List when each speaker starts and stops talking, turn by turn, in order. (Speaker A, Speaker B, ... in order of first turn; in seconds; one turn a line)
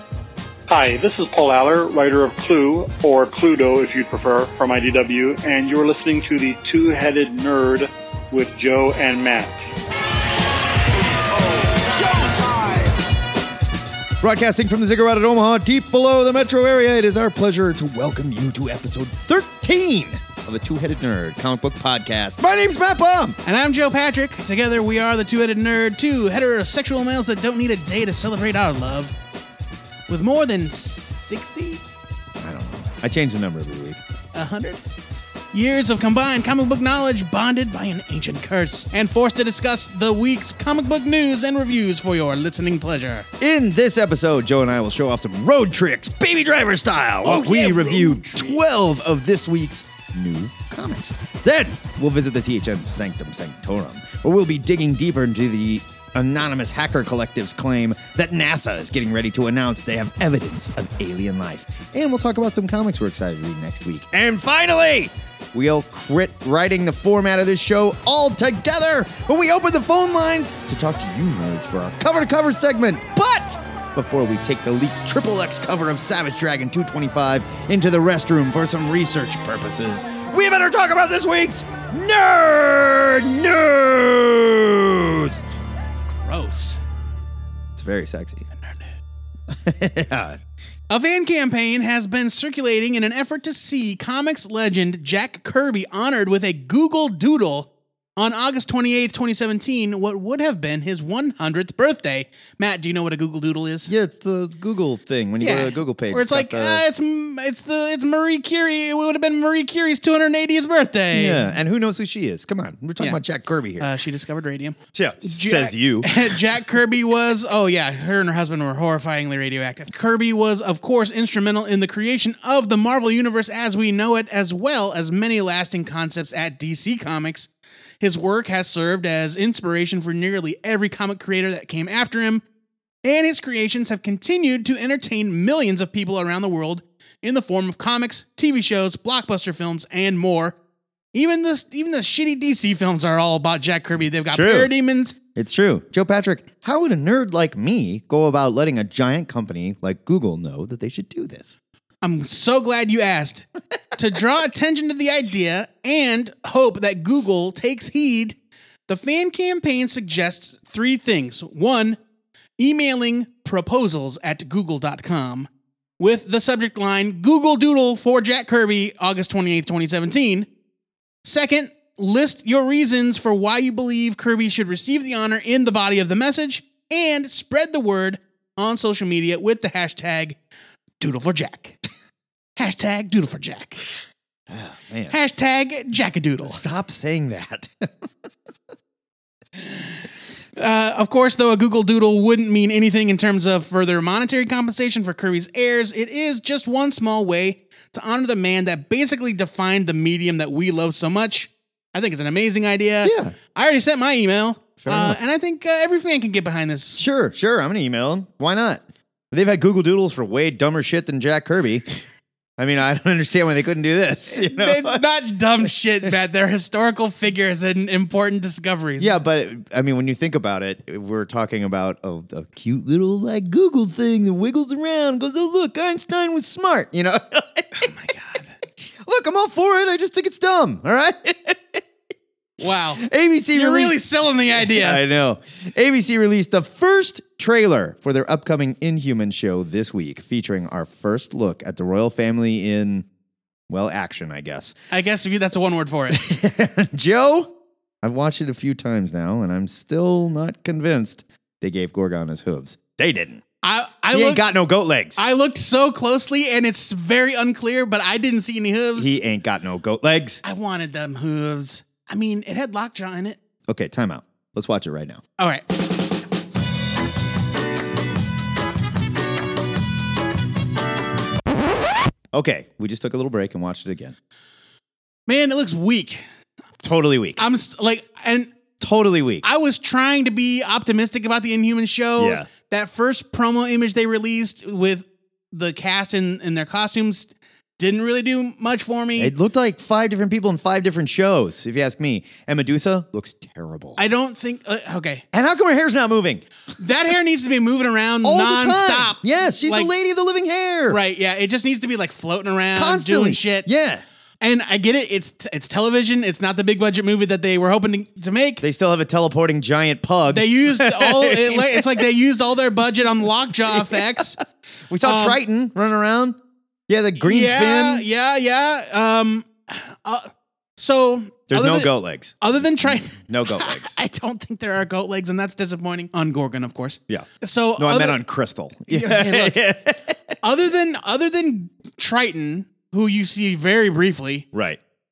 Speaker A: 0.7-9.6
Speaker B: 14.2-23.4
Speaker C: 23.4-29.1
Speaker C: 30.1-31.8
Speaker B: 32.4-34.0
Speaker C: 34.3-34.8
Speaker C: 35.5-43.3
Speaker B: 43.4-85.4
Speaker C: 47.2-49.0
Speaker C: 86.2-86.8
Speaker B: 87.8-88.5
Speaker C: 88.6-88.9
Speaker B: 89.5-90.4
Speaker C: 90.9-103.9
Speaker B: 103.9-106.8
Speaker C: 105.4-111.5
Speaker B: 111.1-113.9
Speaker C: 113.8-127.5
Speaker B: 114.9-116.3
Speaker C: 128.0-132.4
Speaker C: 133.0-140.6
Speaker C: 141.1-145.2
Speaker B: 144.0-144.7
Speaker B: 145.3-151.6
Speaker C: 152.0-153.5
Speaker C: 154.0-158.4
Speaker C: 158.9-162.0
Speaker C: 162.6-165.5
Speaker C: 166.0-170.5
Speaker C: 171.2-180.4
Speaker C: 181.0-181.8
Speaker C: 182.6-183.8
Speaker B: 184.5-185.2
Speaker C: 185.1-186.6
Speaker B: 186.4-188.1
Speaker C: 190.6-207.0
Speaker B: 203.0-203.3
Speaker B: 204.8-205.2
Speaker B: 207.0-211.9
Speaker B: 212.6-215.0
Speaker C: 214.3-219.2
Speaker B: 219.0-227.9
Speaker C: 227.8-228.5
Speaker B: 229.1-231.8
Speaker C: 232.6-235.0
Speaker B: 233.0-233.9
Speaker B: 234.6-243.1
Speaker B: 243.7-244.8
Speaker C: 244.9-246.2
Speaker B: 246.1-253.4
Speaker C: 253.6-254.4
Speaker B: 254.1-255.2
Speaker C: 255.2-259.2
Speaker B: 259.0-260.4
Speaker C: 260.4-263.4
Speaker B: 263.7-265.2
Speaker C: 265.4-265.6
Speaker B: 272.3-274.1
Speaker C: 275.3-276.2
Speaker B: 276.8-277.4
Speaker C: 277.4-278.5
Speaker B: 278.8-279.4
Speaker C: 279.4-289.3
Speaker B: 282.2-282.5
Speaker B: 289.2-294.0
Speaker C: 294.0-295.2
Speaker B: 295.3-296.4
Speaker C: 296.8-299.9
Speaker B: 298.2-301.0
Speaker C: 300.9-303.7
Speaker B: 302.8-304.0
Speaker C: 304.4-308.6
Speaker B: 308.6-311.9
Speaker C: 310.3-314.4
Speaker B: 313.7-314.3
Speaker B: 314.9-316.4
Speaker C: 315.0-315.4
Speaker B: 316.9-318.1
Speaker C: 317.2-328.2
Speaker B: 321.5-323.9
Speaker B: 327.1-330.2
Speaker C: 328.9-329.6
Speaker C: 330.4-334.5
Speaker B: 334.5-334.8